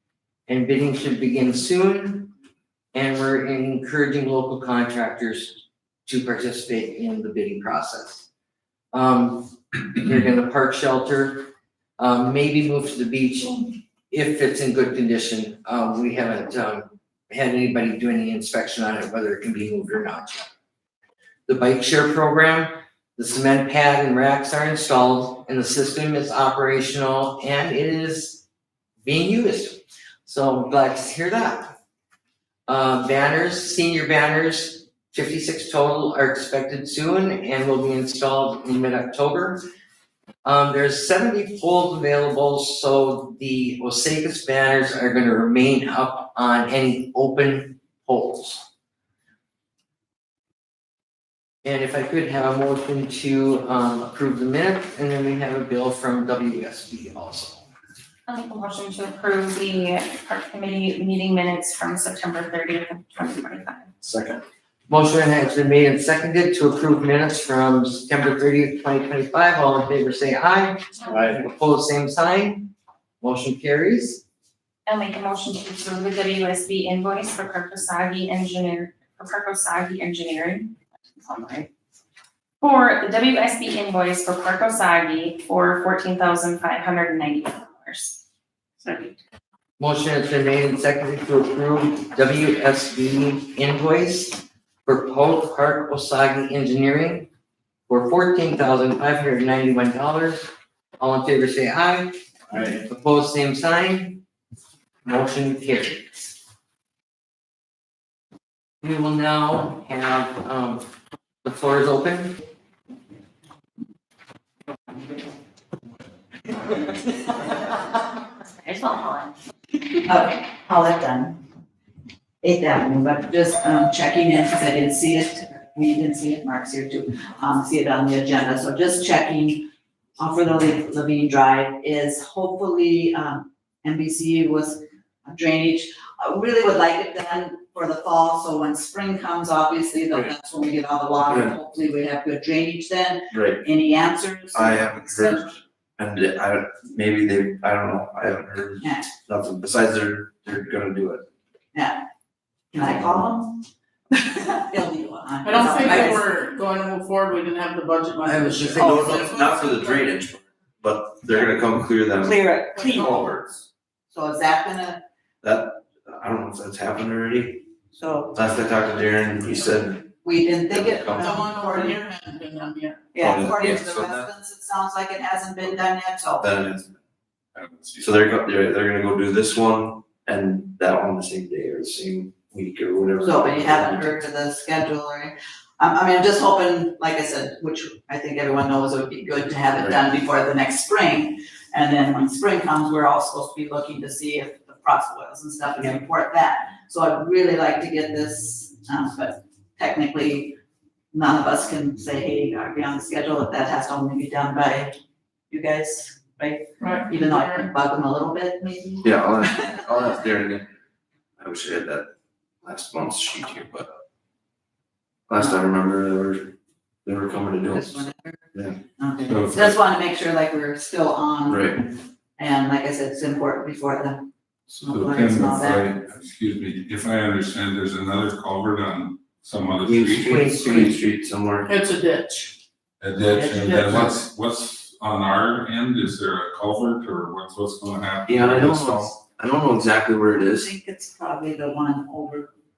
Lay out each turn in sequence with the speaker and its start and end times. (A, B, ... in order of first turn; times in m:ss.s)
0:00.5-0:02.3 A
0:02.9-0:08.3 A
0:08.9-0:11.5 A
0:12.0-0:20.5 A
0:21.5-0:28.4 A
0:29.0-0:31.8 A
0:32.7-0:39.6 A
0:40.4-0:48.6 A
0:51.6-0:57.7 A
0:58.3-1:03.9 B
1:04.0-1:04.4 C
1:04.9-1:14.2 A
1:14.8-1:21.7 B
1:22.6-1:28.2 B
1:28.8-1:29.2 B
1:29.8-1:37.3 A
1:37.9-1:44.2 A
1:45.0-1:46.3 A
1:48.8-1:50.8 A
1:51.4-1:52.4 A
1:57.5-1:57.7 B
1:58.4-1:59.3 B
2:00.0-2:01.4 D
2:02.4-2:25.5 D
2:21.2-2:21.6 C
2:23.3-2:23.6 C
2:24.5-2:31.2 C
2:28.8-2:29.1 D
2:31.7-2:32.0 D
2:32.7-2:33.5 D
2:34.1-2:36.3 D
2:35.4-2:40.1 E
2:35.6-2:36.1 C
2:38.2-2:39.2 A
2:38.7-2:43.6 C
2:38.8-2:39.2 D
2:42.2-2:43.2 D
2:42.7-2:43.2 E
2:44.1-2:45.0 D
2:45.4-2:47.7 C
2:47.9-2:48.3 D
2:48.3-2:50.0 C
2:50.2-2:52.0 D
2:50.7-2:51.5 C
2:51.2-2:53.2 E
2:53.1-2:56.5 D
2:53.2-2:53.9 C
2:53.6-2:54.2 F
2:56.4-2:56.9 C
2:57.5-2:58.3 F
2:58.0-3:04.2 C
3:03.2-3:20.6 D
3:21.1-3:25.0 D
3:25.5-3:29.8 D
3:26.8-3:27.7 E
3:29.0-3:30.7 C
3:31.4-3:32.1 C
3:32.6-3:33.9 C
3:35.3-3:36.5 C
3:37.0-3:38.7 C
3:37.7-3:38.4 D
3:39.0-3:41.9 D
3:39.2-3:39.8 F
3:41.5-3:41.8 C
3:42.4-3:45.9 D
3:44.8-3:50.5 F
3:49.8-3:51.7 C
3:50.2-3:51.0 A
3:51.6-3:52.6 E
3:53.0-3:59.1 F
3:53.3-3:54.2 E
3:58.2-4:00.7 C
4:00.3-4:02.5 D